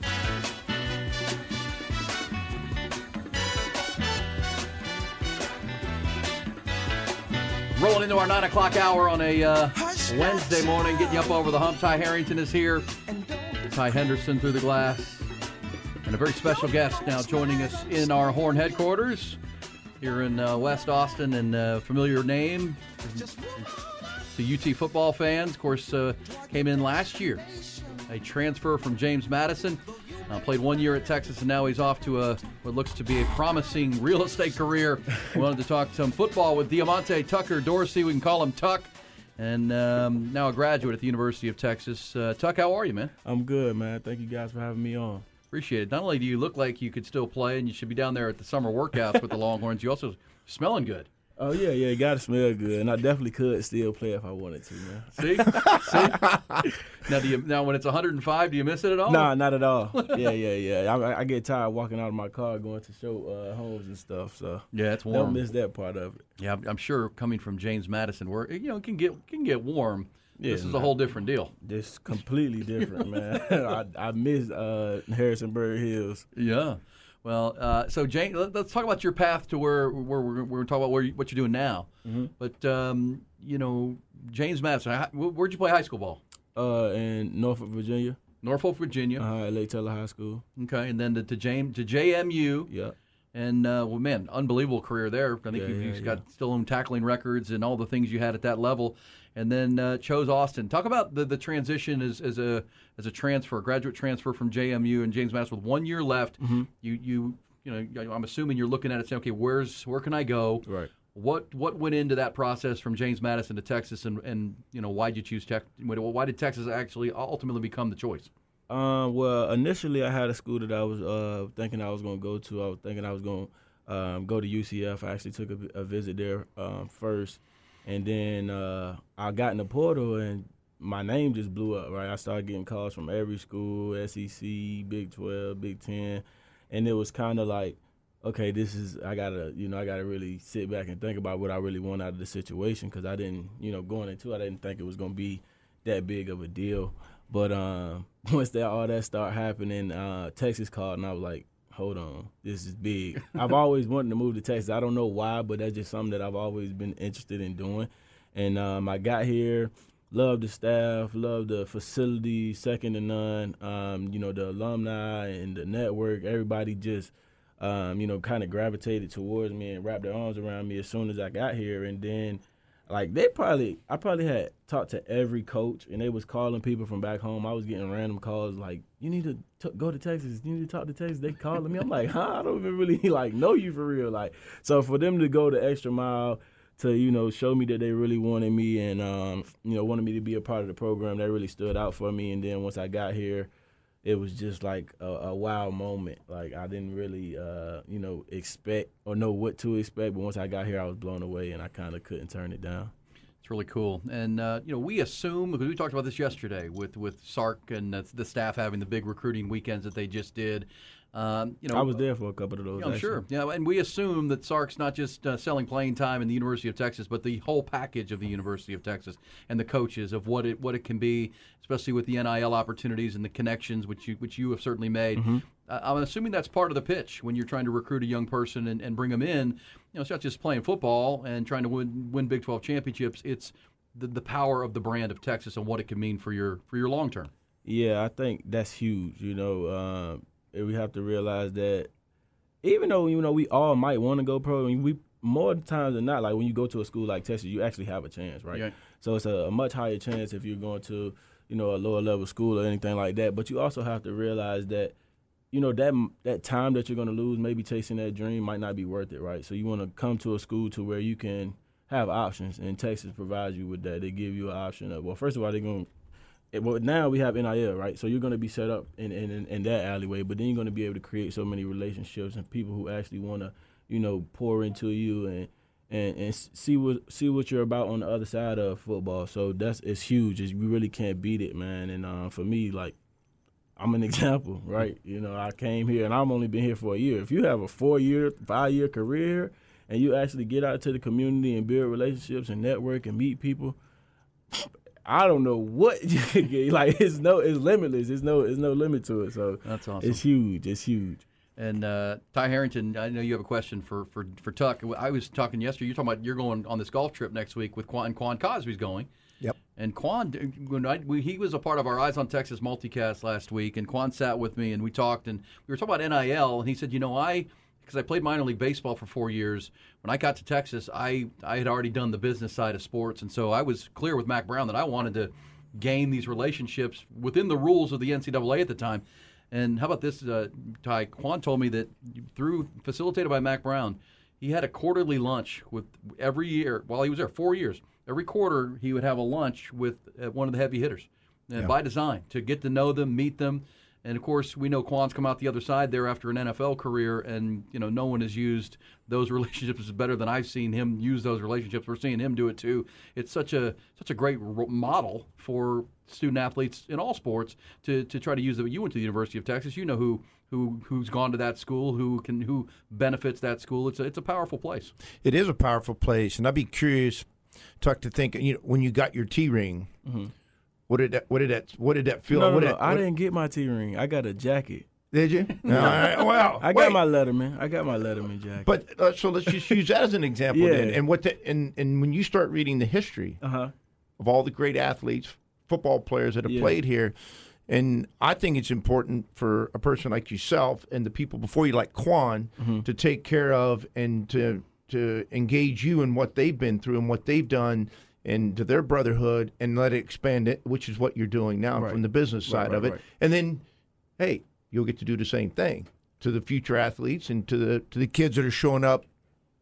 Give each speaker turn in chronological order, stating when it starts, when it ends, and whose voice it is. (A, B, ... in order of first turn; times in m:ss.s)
0:07.7-0:12.9 A
0:13.6-0:15.3 A
0:16.0-0:19.4 A
0:20.0-0:23.3 A
0:24.3-0:43.1 A
0:43.2-0:45.2 B
0:45.5-0:51.1 A
0:51.4-0:56.0 B
0:55.2-0:56.2 A
0:55.6-0:56.6 C
0:57.0-0:59.3 A
0:59.1-1:06.2 B
1:04.7-1:05.4 A
1:06.4-1:11.5 A
1:10.4-1:11.0 B
1:11.6-1:16.2 B
1:16.3-1:26.2 A
1:22.0-1:22.3 B
1:26.5-1:28.2 B
1:28.4-1:29.2 A
1:29.2-1:30.4 B
1:30.6-1:32.7 A
1:32.7-1:32.9 B
1:33.3-1:58.3 A
1:35.5-1:36.2 B
1:46.4-1:46.7 B
1:58.7-3:13.5 B
3:14.0-3:22.9 B
3:23.4-3:32.0 A
3:31.7-3:33.2 B
3:32.8-3:57.3 A
3:45.2-3:45.4 B
3:57.6-4:01.9 B
4:02.6-4:14.9 B
4:15.5-4:25.9 B
4:26.5-4:43.0 B
4:43.8-4:53.8 B
4:54.5-5:01.2 B
4:59.6-5:00.2 A
5:01.6-5:09.1 A
5:09.8-6:04.9 A
6:05.2-6:07.3 C
6:07.8-6:09.9 C
6:10.0-6:10.3 B
6:10.9-6:13.0 C
6:12.3-6:14.9 B
6:15.1-6:17.0 C
6:15.6-6:18.7 B
6:18.6-6:23.4 C
6:20.5-6:21.0 B
6:23.4-6:23.7 B
6:24.2-6:27.1 C
6:26.4-6:26.8 B
6:27.7-6:43.6 C
6:32.6-6:32.8 B
6:41.8-6:43.0 B
6:44.2-6:49.1 C